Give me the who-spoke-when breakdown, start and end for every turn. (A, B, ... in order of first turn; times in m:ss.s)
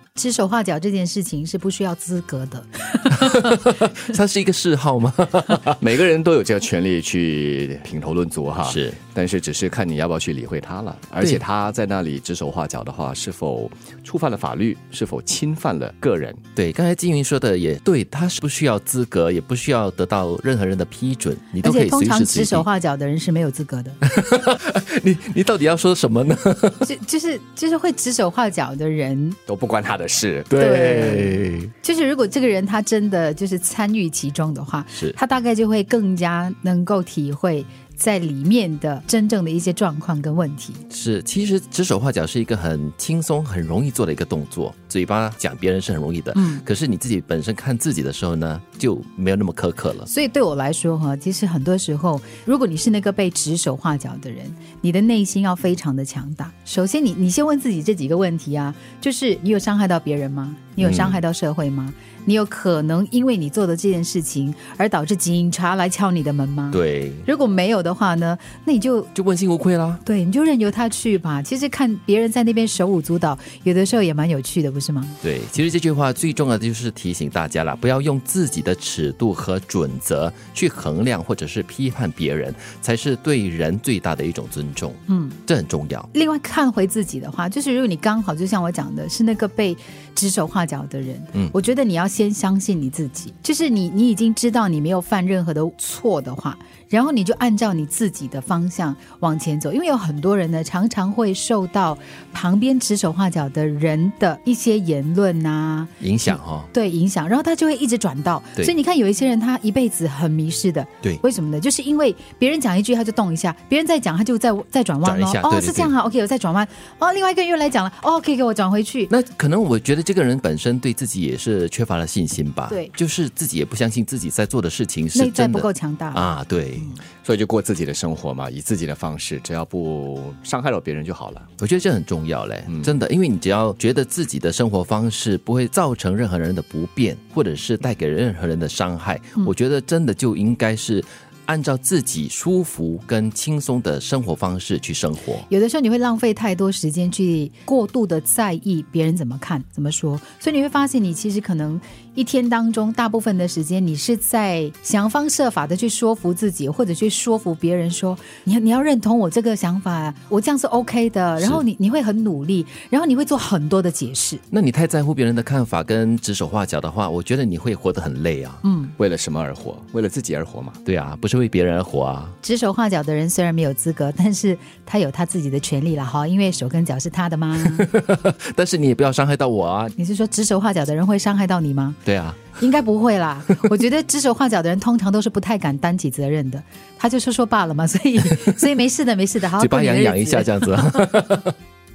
0:00.2-0:03.5 A
0:03.2-0:05.8 B
0:05.8-0:16.4 C
0:08.6-0:09.0 B
0:16.6-0:22.7 B
0:21.6-0:24.0 A
0:24.0-0:26.9 B
0:26.8-0:29.4 A
0:29.5-0:30.6 C
0:30.5-0:31.7 B
0:30.6-0:40.8 A
0:40.9-0:50.1 B
0:46.4-0:46.6 A
0:50.1-1:09.1 A
1:00.8-1:01.2 B
1:06.7-1:07.3 B
1:09.1-1:10.0 B
1:10.0-1:15.2 A
1:15.2-1:26.1 B
1:25.1-1:25.4 A
1:26.1-1:59.1 A
1:46.0-1:46.7 B
1:55.0-1:55.9 B
1:59.1-2:06.9 B
2:05.1-2:07.0 A
2:07.2-2:11.5 C
2:11.6-2:25.5 B
2:25.5-2:44.4 A
2:41.4-2:41.6 B
2:44.5-2:48.6 B
2:48.6-2:48.9 A
2:49.0-2:50.8 C
2:50.8-2:52.4 B
2:52.4-2:57.9 A
2:57.6-3:00.0 B
3:00.0-3:02.0 A
3:02.0-3:02.6 B
3:02.5-3:10.8 A
3:09.6-3:11.5 B